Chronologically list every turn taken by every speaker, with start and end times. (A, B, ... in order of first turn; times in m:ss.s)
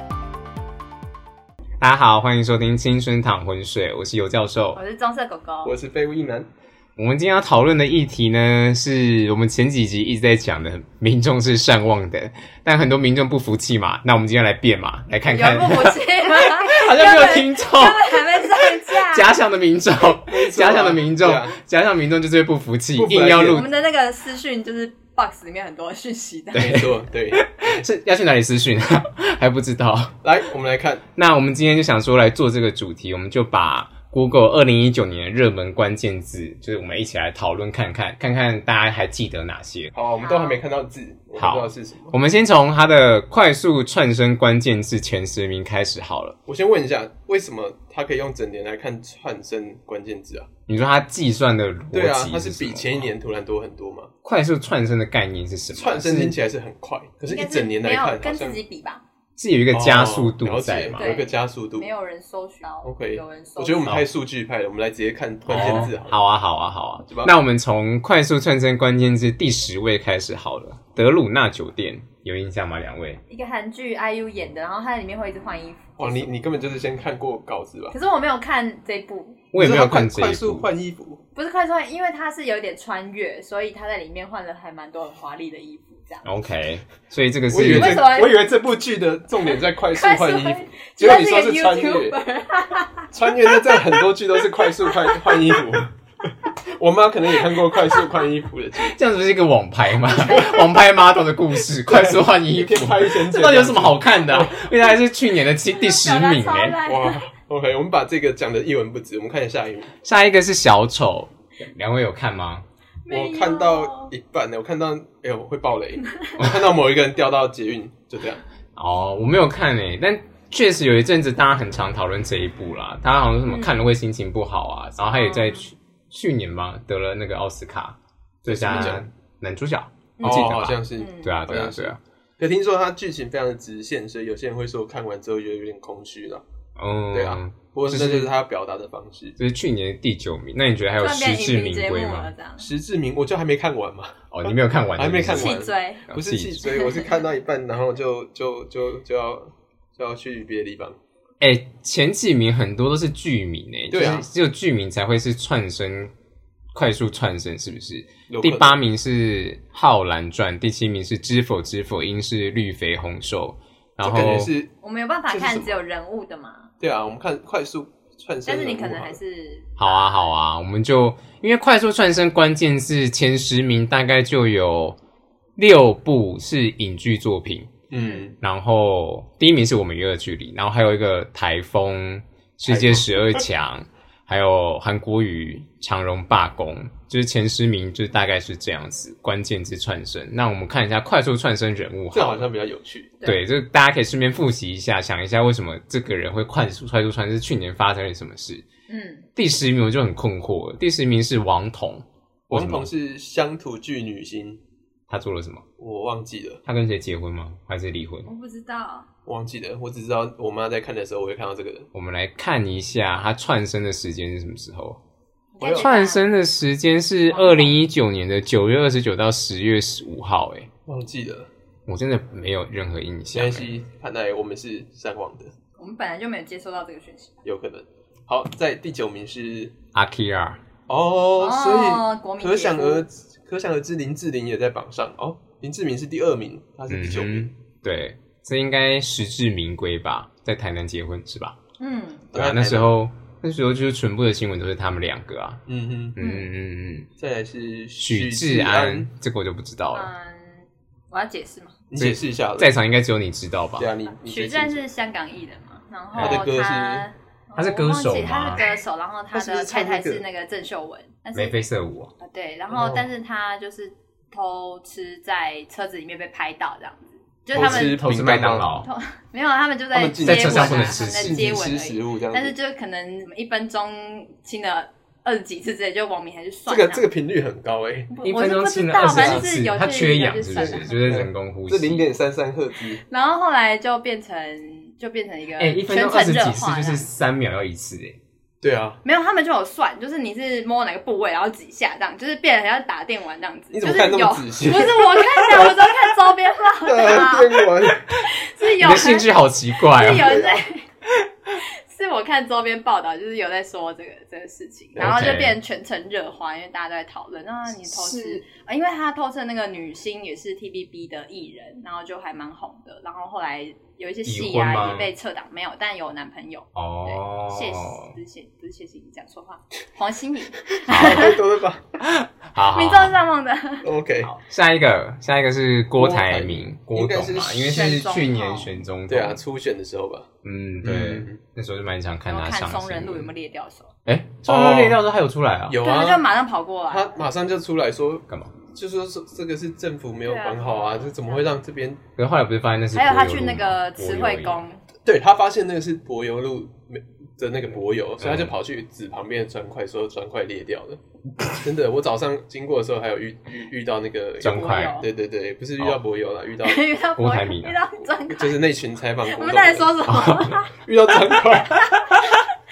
0:01.8-0:04.8 A
0:04.8-0:05.7 B
0:05.6-0:06.5 C
0:07.0-0:23.7 A
0:15.3-0:19.4 B
0:20.2-0:21.6 C
0:23.0-0:23.7 C
0:23.5-0:26.8 B
0:26.5-0:27.8 C
0:26.5-0:30.2 A
0:30.2-0:31.0 C
0:31.1-0:39.9 A
0:39.9-0:42.2 C
0:40.2-0:40.6 B
0:41.4-0:46.4 A
0:46.5-0:50.5 C
0:50.7-0:53.1 A
0:51.9-0:54.1 C
0:54.2-0:56.4 A
0:55.7-0:58.6 C
0:57.3-0:59.0 B
0:59.4-1:01.1 A
0:59.7-1:01.9 C
1:00.9-1:04.0 B
1:02.8-1:06.2 C
1:05.5-1:13.2 A
1:07.0-1:07.3 C
1:13.3-1:16.3 B
1:16.0-1:18.0 C
1:17.9-1:19.4 B
1:19.5-1:20.7 A
1:19.6-1:21.2 C
1:21.4-1:26.3 B
1:26.2-1:28.1 A
1:27.5-1:32.2 C
1:27.6-1:28.5 B
1:29.9-1:34.0 B
1:33.1-1:39.0 C
1:34.6-1:35.4 B
1:38.8-1:46.8 A
1:40.2-1:40.7 B
1:41.8-1:44.7 C
1:45.7-1:47.2 B
1:46.8-1:49.9 C
1:50.0-1:52.6 A
1:53.0-1:54.1 B
1:53.1-1:58.4 C
1:58.8-2:12.0 A
2:03.4-2:03.8 B
2:05.0-2:05.7 B
2:08.5-2:09.1 C
2:10.2-2:11.4 B
2:10.2-2:16.4 C
2:16.8-2:18.3 A
2:17.1-2:19.4 C
2:19.4-2:22.3 A
2:21.0-2:22.7 B
2:22.6-2:31.0 C
2:24.3-2:26.7 A
2:25.3-2:26.1 B
2:26.6-2:27.2 B
2:31.4-2:36.1 A
2:33.9-2:34.3 C
2:36.7-2:44.5 A
2:38.3-2:38.8 C
2:44.0-2:44.7 C
2:44.8-2:46.7 B
2:45.3-2:45.8 C
2:46.8-2:49.2 C
2:48.5-2:50.3 B
2:49.8-2:55.0 A
2:55.6-2:57.8 A
2:57.9-2:58.4 C
2:58.0-2:58.3 B
2:58.4-3:12.5 A
3:02.7-3:03.4 C
3:12.1-3:13.2 C
3:13.2-3:18.6 A
3:18.9-3:19.3 B
3:19.4-3:22.9 A
3:22.5-3:24.6 C
3:25.1-3:25.6 A
3:25.8-3:26.6 C
3:26.6-3:28.3 A
3:28.2-3:29.1 B
3:29.3-3:31.9 C
3:31.9-3:35.0 A
3:35.5-3:36.3 B
3:35.6-3:35.9 C
3:35.7-3:40.7 A
3:37.3-3:37.8 B
3:40.9-3:41.5 C
3:41.9-3:43.8 A
3:43.3-3:45.5 C
3:45.8-3:47.4 B
3:47.4-3:49.8 C
3:49.9-3:50.6 A
3:50.9-3:57.5 C
3:51.4-3:53.0 B
3:56.9-4:01.6 A
4:01.8-4:02.3 B
4:02.3-4:03.0 C
4:02.3-4:05.6 A
4:05.7-4:06.2 C
4:06.2-4:07.1 A
4:06.2-4:06.5 B
4:07.2-4:09.1 C
4:08.0-4:10.1 A
4:09.9-4:11.8 B
4:11.9-4:12.7 C
4:12.0-4:13.9 A
4:13.8-4:14.9 C
4:14.2-4:21.6 B
4:16.1-4:16.4 A
4:16.2-4:17.1 C
4:17.6-4:18.8 A
4:19.3-4:20.2 C
4:21.3-4:22.1 A
4:22.2-4:28.1 B
4:22.7-4:23.1 C
4:27.5-4:28.7 C
4:27.5-4:28.9 A
4:28.8-4:37.1 B
4:29.9-4:32.6 C
4:30.2-4:31.4 A
4:36.7-4:38.1 C
4:38.1-4:41.1 B
4:38.2-4:42.0 A
4:39.1-4:39.5 C
4:40.6-4:43.0 C
4:43.0-4:47.1 B
4:45.6-4:48.2 A
4:48.6-4:49.0 C
4:49.0-4:57.7 B
4:53.7-4:55.9 C
4:56.8-4:58.2 C
4:58.2-5:00.9 B
4:58.8-5:00.4 A
5:00.2-5:00.6 C
5:01.6-5:21.4 B
5:05.0-5:05.4 C
5:05.0-5:05.6 A
5:07.8-5:08.4 A
5:14.2-5:15.1 A
5:16.8-5:18.1 A
5:20.9-5:21.4 A
5:20.9-5:21.9 C
5:22.0-5:23.2 A
5:22.7-5:23.9 B
5:23.8-5:24.3 C
5:24.2-5:29.4 A
5:26.0-5:28.0 C
5:27.7-5:28.8 B
5:29.1-5:30.3 C
5:30.4-5:33.3 A
5:30.8-5:31.4 C
5:32.3-5:33.9 B
5:34.1-5:35.8 A
5:34.4-5:35.0 C
5:35.7-5:36.3 C
5:35.8-5:37.2 B
5:36.9-5:42.0 C
5:38.3-5:38.5 A
5:40.3-5:41.5 B
5:42.2-5:44.6 A
5:42.9-5:44.8 B
5:45.0-5:51.0 C
5:48.2-5:48.6 A
5:51.5-5:56.9 C
5:54.4-5:55.0 A
5:54.4-5:55.1 B
5:56.6-6:00.8 B
5:57.2-5:57.8 A
5:58.3-6:01.9 C
6:00.1-6:00.6 A